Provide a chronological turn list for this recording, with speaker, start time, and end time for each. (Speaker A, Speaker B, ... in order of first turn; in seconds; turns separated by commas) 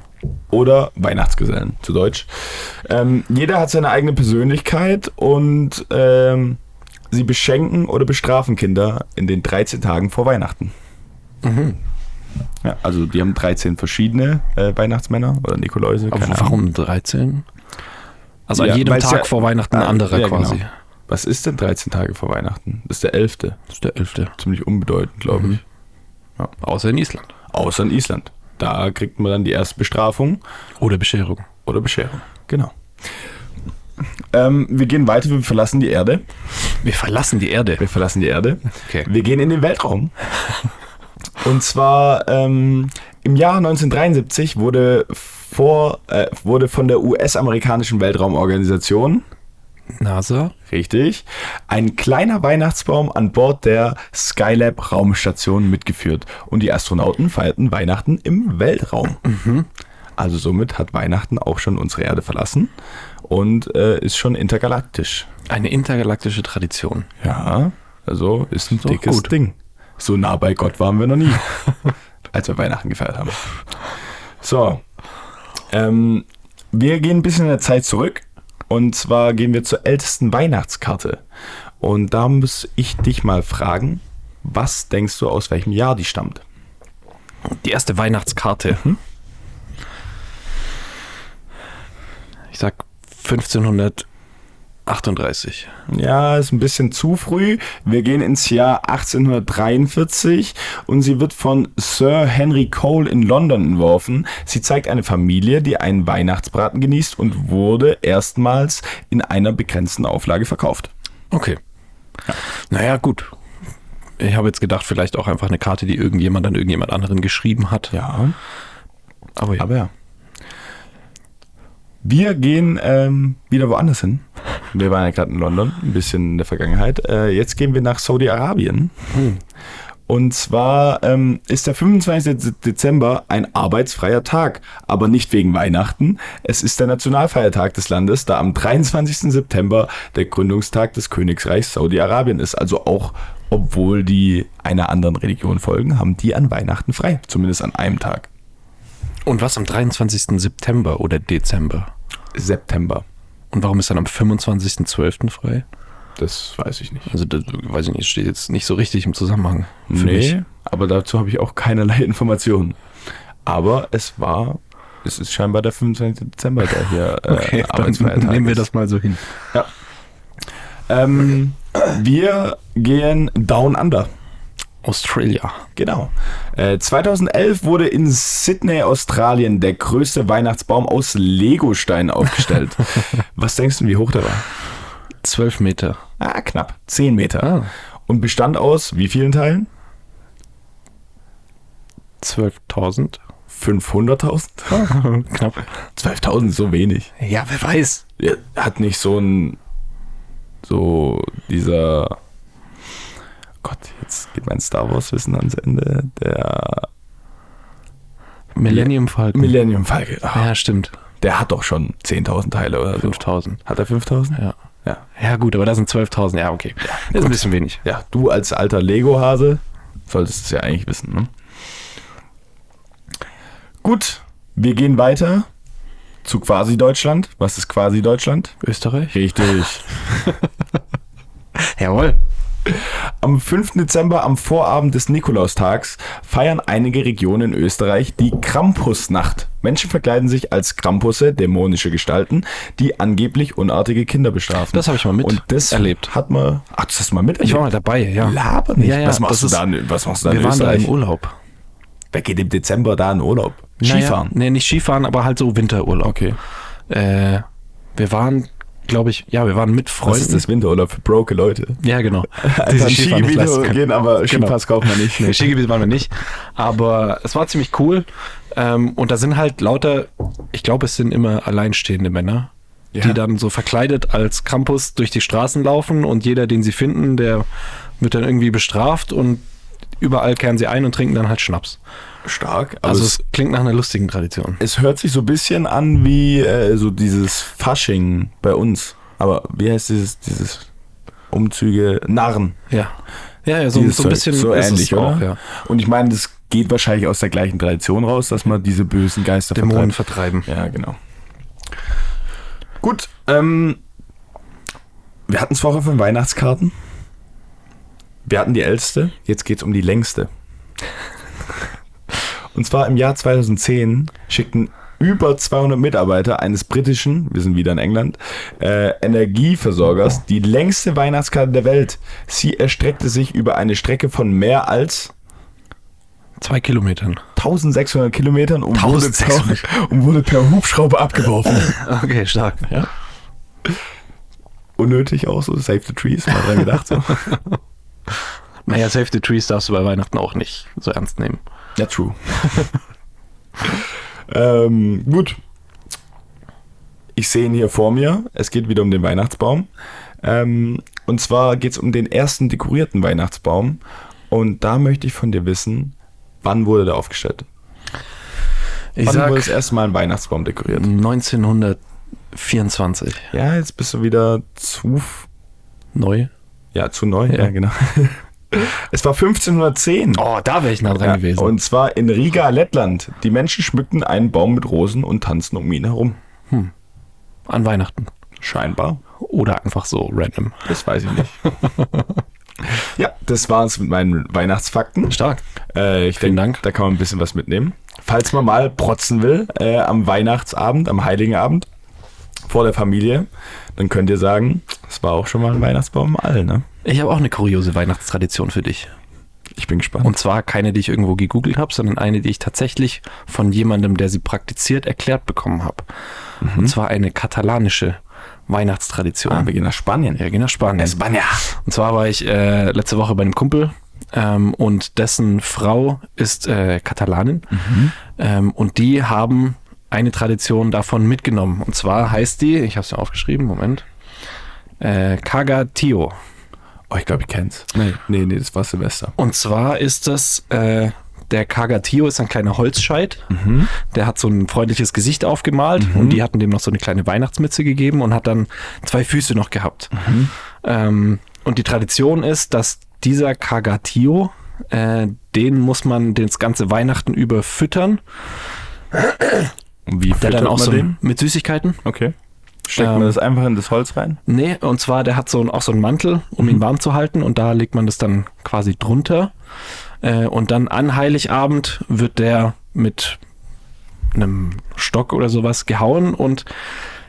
Speaker A: 0.5-6.6, Speaker A: 7.1-10.8, Speaker B: 11.4-11.8, Speaker A: 12.6-16.6, Speaker B: 16.1-17.5, Speaker B: 18.5-20.7, Speaker A: 18.6-23.6, Speaker B: 23.7-24.4, Speaker A: 24.3-25.6, Speaker B: 25.3-25.6, Speaker B: 26.6-27.3, Speaker A: 27.5-30.4, Speaker B: 30.8-31.5, Speaker A: 31.7-32.8, Speaker A: 34.3-36.3, Speaker B: 36.8-37.8, Speaker A: 37.8-40.1, Speaker B: 38.8-39.1, Speaker A: 41.4-49.2, Speaker B: 50.0-50.5, Speaker A: 50.7-59.2, Speaker B: 59.2-59.7, Speaker A: 60.2-62.7, Speaker A: 63.2-65.3, Speaker B: 65.5-67.1, Speaker A: 67.2-71.8, Speaker B: 68.8-69.3, Speaker A: 72.3-73.5, Speaker A: 74.4-74.8, Speaker A: 75.7-81.2, Speaker A: 81.8-86.4, Speaker B: 87.5-89.0, Speaker B: 92.5-94.1, Speaker B: 94.9-95.7, Speaker A: 95.9-110.9, Speaker B: 111.3-111.6, Speaker B: 112.7-113.3, Speaker B: 114.2-118.0, Speaker A: 117.9-118.4, Speaker B: 119.4-119.7, Speaker A: 119.6-119.9, Speaker A: 122.0-129.1, Speaker B: 129.1-129.4, Speaker A: 130.1-148.3, Speaker B: 149.3-151.9, Speaker A: 152.3-153.1, Speaker B: 153.5-155.7, Speaker A: 156.2-157.1, Speaker B: 157.1-160.4, Speaker A: 159.9-162.8, Speaker A: 163.4-168.7, Speaker B: 167.3-169.3, Speaker A: 170.9-174.1, Speaker B: 174.8-175.7, Speaker A: 175.8-184.5, Speaker B: 185.2-186.0, Speaker A: 186.2-189.7, Speaker B: 187.4-187.7, Speaker B: 192.2-193.2, Speaker A: 193.5-195.0, Speaker B: 194.7-195.7, Speaker A: 196.0-197.1, Speaker B: 197.2-198.0, Speaker A: 198.2-199.6, Speaker A: 200.6-202.2, Speaker A: 203.6-206.9, Speaker B: 208.6-209.6, Speaker A: 208.7-210.5, Speaker B: 210.3-211.0, Speaker A: 211.2-215.0, Speaker B: 213.0-213.6, Speaker B: 215.2-217.8, Speaker A: 216.8-221.3, Speaker A: 223.8-225.5, Speaker A: 226.2-228.6, Speaker B: 228.6-229.2, Speaker A: 229.1-230.3, Speaker B: 231.6-232.2, Speaker A: 232.7-247.7, Speaker B: 244.7-246.1, Speaker B: 247.4-249.6, Speaker A: 248.2-250.9, Speaker B: 250.2-251.4, Speaker A: 252.1-254.3, Speaker B: 253.8-256.2, Speaker A: 256.0-256.4, Speaker B: 256.9-260.4, Speaker A: 260.1-261.8, Speaker B: 261.8-277.4, Speaker A: 262.4-265.6, Speaker A: 272.9-273.2, Speaker B: 278.0-279.4, Speaker B: 280.0-281.8, Speaker A: 282.2-283.2, Speaker B: 282.9-284.6, Speaker A: 284.6-290.7, Speaker A: 291.3-292.6, Speaker B: 292.7-295.4, Speaker A: 293.7-301.0, Speaker B: 299.6-300.5, Speaker A: 302.8-303.8, Speaker A: 305.3-306.8, Speaker A: 308.2-310.3, Speaker A: 312.5-325.1, Speaker B: 326.4-327.2, Speaker A: 327.4-331.8, Speaker B: 328.7-329.6, Speaker B: 331.6-332.9, Speaker A: 334.8-337.4, Speaker B: 337.1-337.4, Speaker B: 338.7-341.4, Speaker A: 341.8-342.7, Speaker A: 343.6-345.4, Speaker A: 347.1-349.7, Speaker A: 350.2-357.5, Speaker B: 359.0-359.6, Speaker A: 359.1-360.9, Speaker B: 360.7-361.8, Speaker B: 362.3-363.3, Speaker A: 363.3-365.3, Speaker B: 365.9-366.3, Speaker A: 366.7-370.2, Speaker B: 370.1-371.6, Speaker A: 370.9-376.2, Speaker B: 377.5-378.1, Speaker A: 378.4-379.0, Speaker B: 379.2-380.7, Speaker A: 380.7-381.5, Speaker B: 381.4-382.2, Speaker A: 382.6-385.2, Speaker B: 385.1-385.4, Speaker A: 385.7-391.7, Speaker B: 386.2-386.6, Speaker A: 392.5-396.6, Speaker B: 396.9-398.9, Speaker A: 399.6-400.1, Speaker B: 400.0-405.9, Speaker A: 406.4-406.8, Speaker B: 406.5-409.5, Speaker A: 409.3-410.2, Speaker B: 410.1-423.9, Speaker A: 410.8-411.4, Speaker A: 417.5-417.9, Speaker B: 424.8-426.1, Speaker A: 426.9-429.1, Speaker B: 429.2-440.1, Speaker A: 433.3-433.7, Speaker A: 435.8-436.2, Speaker A: 439.9-440.3, Speaker B: 440.6-448.0, Speaker B: 448.9-449.5, Speaker A: 449.9-451.0, Speaker B: 450.2-451.8, Speaker A: 451.9-452.1, Speaker A: 452.7-454.2, Speaker B: 452.8-453.2, Speaker B: 454.3-459.3, Speaker B: 460.0-463.2, Speaker B: 464.1-466.5